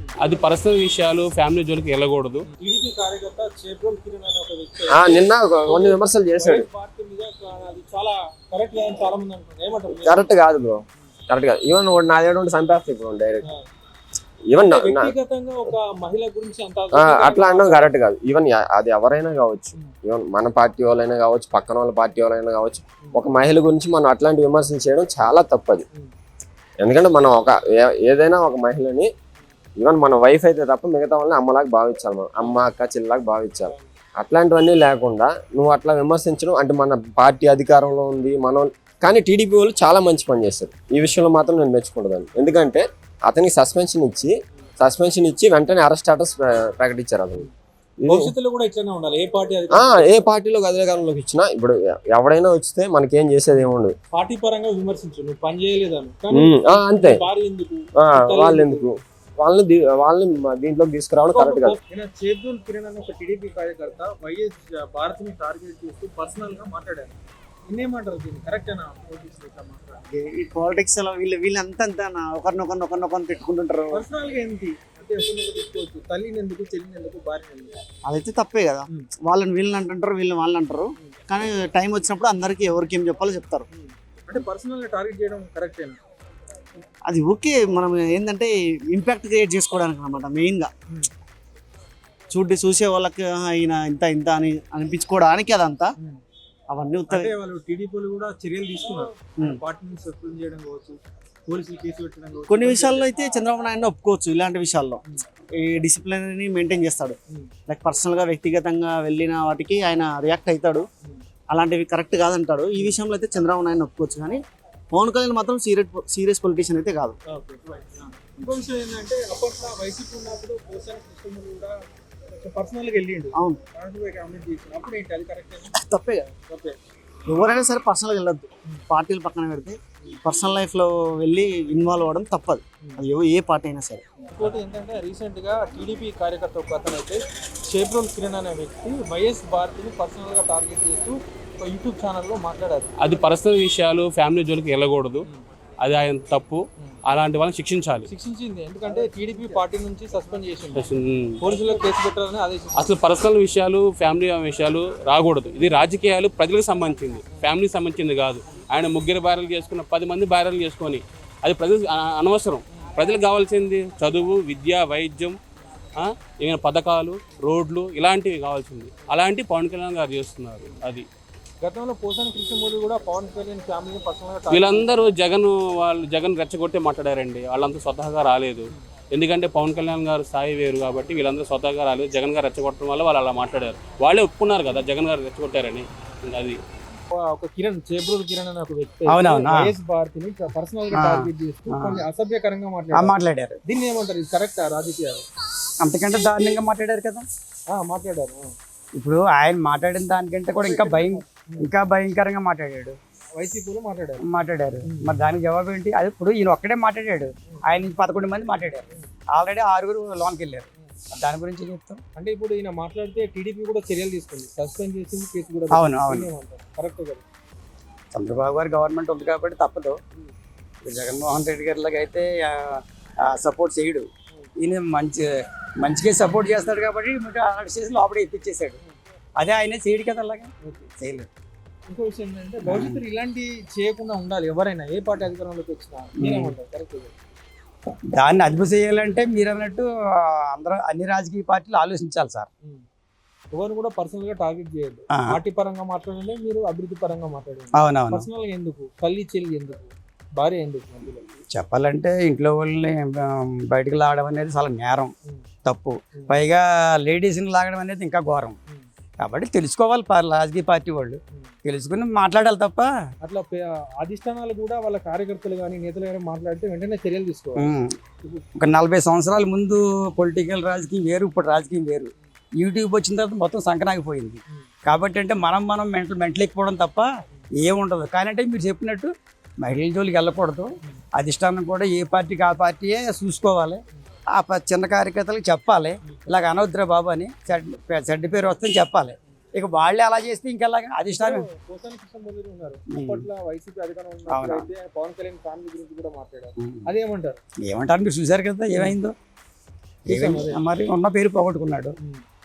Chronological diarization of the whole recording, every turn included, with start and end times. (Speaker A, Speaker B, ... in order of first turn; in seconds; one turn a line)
Speaker A: 0.2-2.5
Speaker B: 2.5-10.3
Speaker C: 4.9-6.7
Speaker C: 10.0-13.4
Speaker C: 14.5-15.1
Speaker B: 14.6-17.9
Speaker C: 16.9-25.9
Speaker C: 26.8-29.1
Speaker C: 29.8-47.5
Speaker C: 48.0-48.3
Speaker B: 48.1-50.3
Speaker C: 49.7-54.0
Speaker B: 53.5-58.9
Speaker C: 56.3-57.2
Speaker C: 58.0-61.8
Speaker B: 61.3-70.1
Speaker D: 70.1-74.1
Speaker B: 73.9-77.8
Speaker D: 78.0-83.7
Speaker B: 83.7-86.0
Speaker D: 87.1-90.7
Speaker D: 92.3-95.9
Speaker D: 96.7-97.3
Speaker B: 97.1-103.1
Speaker D: 102.5-105.0
Speaker D: 105.6-107.2
Speaker B: 107.3-107.5
Speaker D: 107.7-110.9
Speaker D: 111.5-114.4
Speaker D: 114.9-117.2
Speaker B: 117.3-121.8
Speaker B: 122.3-125.7
Speaker D: 123.3-123.6
Speaker D: 125.8-126.4
Speaker B: 126.4-126.8
Speaker D: 127.3-134.1
Speaker B: 134.2-142.9
Speaker A: 143.0-145.3
Speaker A: 145.8-148.1
Speaker B: 148.1-152.9
Speaker A: 150.7-151.3
Speaker A: 152.8-165.4
Speaker A: 166.0-171.1
Speaker B: 171.6-174.9
Speaker A: 174.5-186.6
Speaker B: 187.1-193.1
Speaker E: 189.1-189.7
Speaker E: 190.9-192.0
Speaker E: 192.9-193.6
Speaker B: 193.7-195.3
Speaker E: 195.8-197.3
Speaker B: 197.7-198.6
Speaker E: 199.0-203.0
Speaker B: 200.6-201.7
Speaker B: 203.3-204.2
Speaker E: 204.2-212.0
Speaker B: 204.8-205.2
Speaker B: 207.5-207.9
Speaker B: 212.2-217.2
Speaker E: 215.7-216.3
Speaker E: 218.1-220.0
Speaker E: 220.8-224.1
Speaker E: 224.6-225.2
Speaker E: 225.8-228.8
Speaker E: 229.4-231.3
Speaker B: 230.6-230.9
Speaker B: 231.9-237.1
Speaker E: 232.6-233.0
Speaker E: 236.2-236.6
Speaker E: 238.1-242.5
Speaker B: 243.5-251.3
Speaker E: 247.8-248.3
Speaker E: 251.5-255.1
Speaker E: 255.7-258.6
Speaker B: 256.1-256.4
Speaker E: 259.2-262.9
Speaker B: 263.2-267.7
Speaker E: 267.6-267.9
Speaker E: 268.6-283.8
Speaker E: 284.3-291.5
Speaker B: 291.2-297.4
Speaker E: 292.9-293.3
Speaker E: 294.3-294.7
Speaker E: 296.6-296.9
Speaker E: 297.6-299.1
Speaker B: 300.1-300.6
Speaker E: 300.1-301.9
Speaker B: 302.0-302.2